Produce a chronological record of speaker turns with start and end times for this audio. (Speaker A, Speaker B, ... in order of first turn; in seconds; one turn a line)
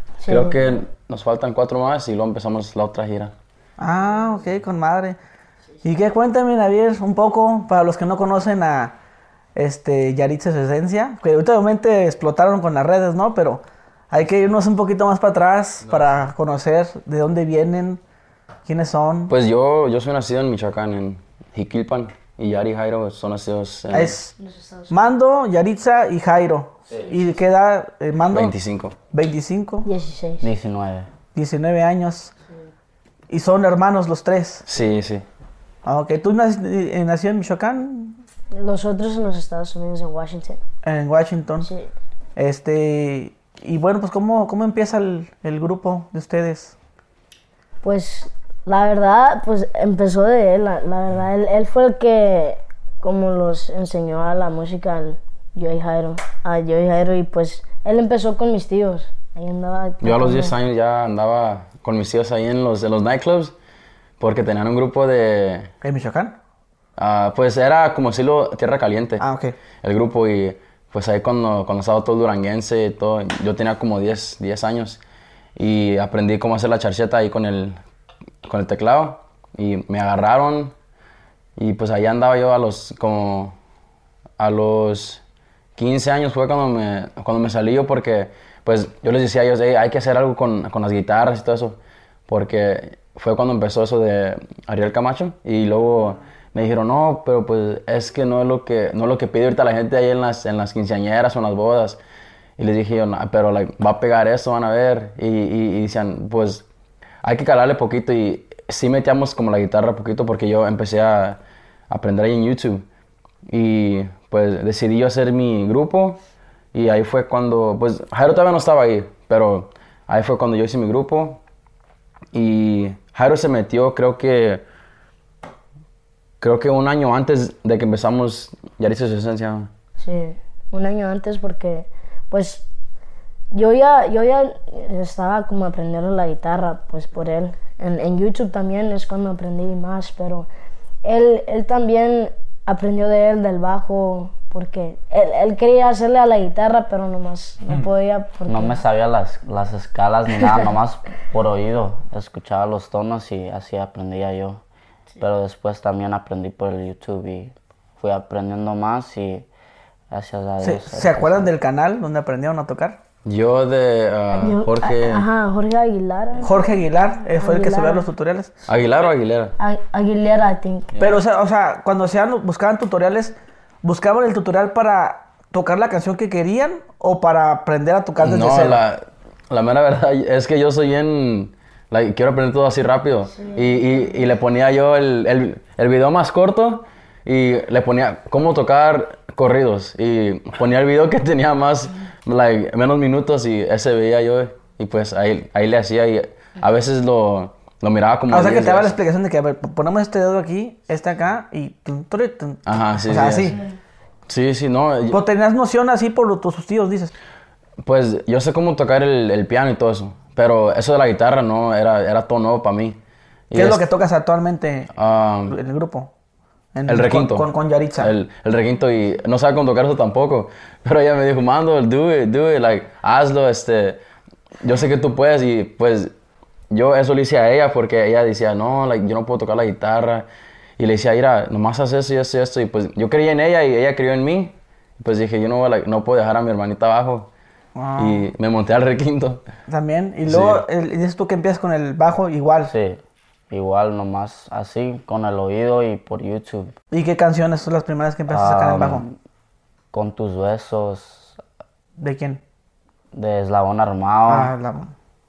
Speaker A: 0.2-0.7
Speaker B: 0.3-3.3
Speaker C: 3.8-5.2
Speaker C: 5.8-8.9
Speaker C: 9.6-18.0
Speaker B: 15.9-16.2
Speaker C: 18.7-19.3
Speaker B: 19.3-24.1
Speaker C: 23.9-24.3
Speaker A: 24.4-24.9
Speaker C: 24.9-28.6
Speaker B: 28.3-29.0
Speaker C: 29.1-29.9
Speaker A: 29.9-30.5
Speaker D: 30.4-31.1
Speaker C: 31.4-32.3
Speaker C: 33.3-34.6
Speaker B: 34.7-35.2
Speaker C: 35.9-38.2
Speaker A: 38.5-40.6
Speaker C: 40.8-41.7
Speaker A: 41.6-41.9
Speaker C: 42.4-46.7
Speaker A: 47.8-60.5
Speaker B: 60.0-63.5
Speaker B: 64.2-65.7
Speaker C: 65.8-66.4
Speaker B: 67.0-69.2
Speaker C: 69.2-69.6
Speaker B: 69.8-75.0
Speaker B: 75.6-77.8
Speaker B: 78.4-80.7
Speaker B: 81.6-83.6
Speaker B: 84.4-85.2
Speaker B: 85.8-91.8
Speaker B: 92.3-102.0
Speaker B: 102.6-106.7
Speaker B: 107.2-111.4
Speaker B: 111.9-112.8
Speaker B: 113.5-116.2
Speaker B: 116.7-121.4
Speaker B: 122.3-124.6
Speaker B: 126.4-129.7
Speaker A: 130.0-132.6
Speaker A: 133.5-140.5
Speaker A: 141.0-148.8
Speaker D: 148.5-154.6
Speaker D: 155.2-159.5
Speaker D: 160.1-161.5
Speaker C: 160.6-163.0
Speaker B: 163.2-165.2
Speaker A: 164.3-166.7
Speaker C: 166.4-168.5
Speaker A: 167.4-168.1
Speaker B: 168.7-169.5
Speaker A: 169.6-170.9
Speaker C: 171.0-178.8
Speaker B: 178.2-199.0
Speaker A: 183.4-183.7
Speaker C: 198.3-203.6
Speaker B: 202.7-203.6
Speaker B: 204.3-205.2
Speaker C: 205.1-207.1
Speaker B: 207.8-213.0
Speaker B: 213.5-213.8
Speaker C: 213.5-214.9
Speaker B: 214.9-215.6
Speaker C: 215.5-216.1
Speaker C: 216.7-218.1
Speaker B: 216.9-224.0
Speaker B: 224.6-226.1
Speaker B: 226.7-230.3
Speaker B: 230.8-237.3
Speaker C: 237.8-238.3
Speaker B: 238.0-239.4
Speaker C: 239.7-242.7
Speaker B: 240.3-240.6
Speaker D: 242.7-246.7
Speaker C: 246.9-249.0
Speaker D: 248.3-249.2
Speaker D: 249.9-251.4
Speaker C: 252.0-252.4
Speaker D: 253.1-254.5
Speaker C: 254.3-254.9